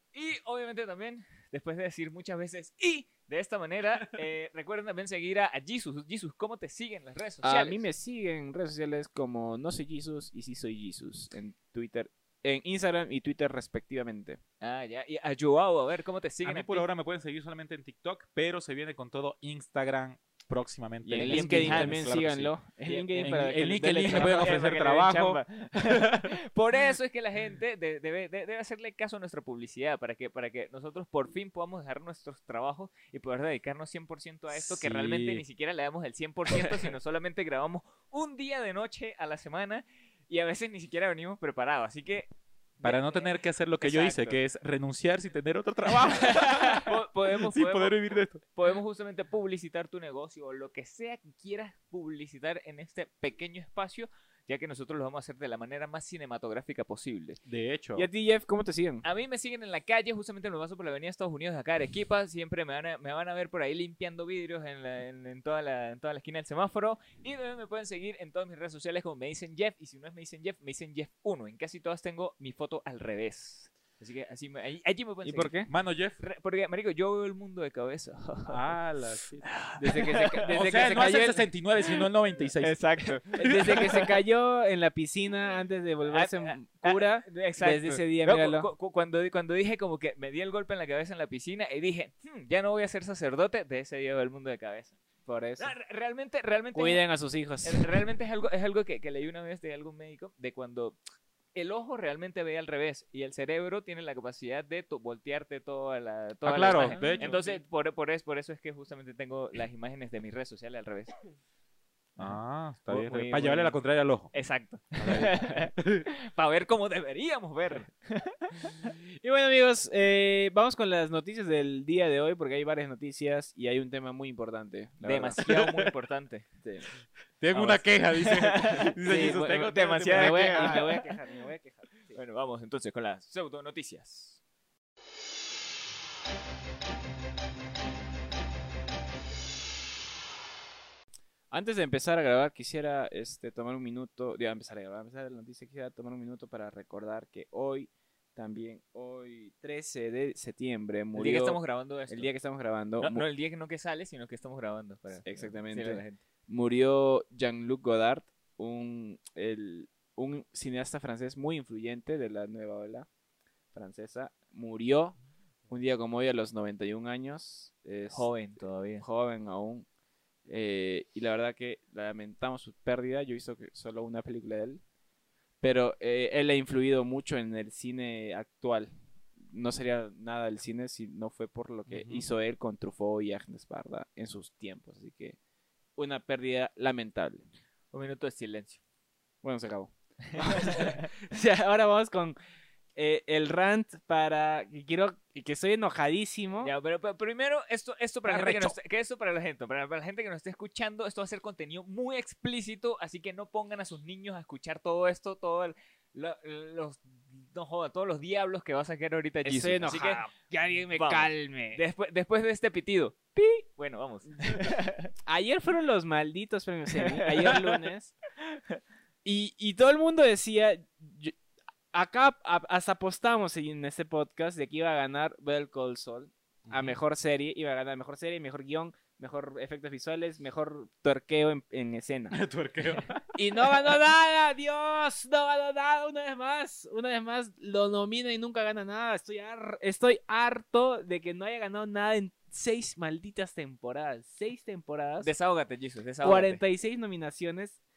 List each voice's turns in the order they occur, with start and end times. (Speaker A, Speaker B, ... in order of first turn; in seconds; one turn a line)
Speaker A: 0.1-7.9
Speaker B: 7.4-14.4
Speaker A: 14.6-16.9
Speaker C: 16.4-22.5
Speaker B: 21.0-24.7
Speaker A: 21.2-22.1
Speaker A: 22.9-44.4
Speaker C: 23.2-26.3
Speaker C: 34.5-35.4
Speaker C: 42.8-48.4
Speaker A: 46.0-57.4
Speaker C: 57.5-58.1
Speaker B: 58.0-59.0
Speaker A: 59.0-75.6
Speaker B: 75.2-75.7
Speaker C: 75.7-76.2
Speaker A: 76.2-78.8
Speaker C: 78.5-79.6
Speaker A: 79.4-81.0
Speaker B: 79.8-81.4
Speaker C: 80.5-82.8
Speaker A: 82.6-84.2
Speaker B: 83.4-88.7
Speaker C: 83.4-83.7
Speaker A: 86.1-95.0
Speaker B: 95.3-95.7
Speaker A: 95.6-97.0
Speaker B: 96.7-97.9
Speaker A: 97.6-101.0
Speaker A: 101.5-111.1
Speaker C: 106.5-107.6
Speaker B: 106.8-107.3
Speaker C: 112.2-114.3
Speaker A: 112.9-113.8
Speaker A: 114.3-118.9
Speaker C: 115.0-116.1
Speaker B: 119.2-125.9
Speaker A: 125.0-126.5
Speaker B: 126.6-126.9
Speaker C: 127.4-130.9
Speaker A: 127.5-131.1
Speaker B: 129.1-132.2
Speaker A: 132.2-134.4
Speaker B: 141.5-153.2
Speaker A: 151.2-152.3
Speaker A: 153.0-156.2
Speaker B: 155.2-163.1
Speaker B: 163.7-165.2
Speaker B: 165.7-168.3
Speaker A: 168.1-169.1
Speaker B: 169.0-169.9
Speaker B: 170.5-174.8
Speaker B: 175.6-178.9
Speaker B: 179.5-185.4
Speaker C: 181.9-182.3
Speaker B: 186.0-187.4
Speaker A: 187.9-188.8
Speaker B: 189.4-192.4
Speaker A: 190.4-191.1
Speaker B: 193.0-196.7
Speaker A: 196.6-210.3
Speaker B: 198.3-198.8
Speaker B: 209.4-211.8
Speaker A: 210.9-215.1
Speaker B: 215.3-218.1
Speaker B: 219.2-221.4
Speaker B: 221.9-232.4
Speaker C: 226.7-227.0
Speaker C: 232.3-233.6
Speaker B: 233.3-245.3
Speaker A: 245.2-246.6
Speaker B: 246.2-247.8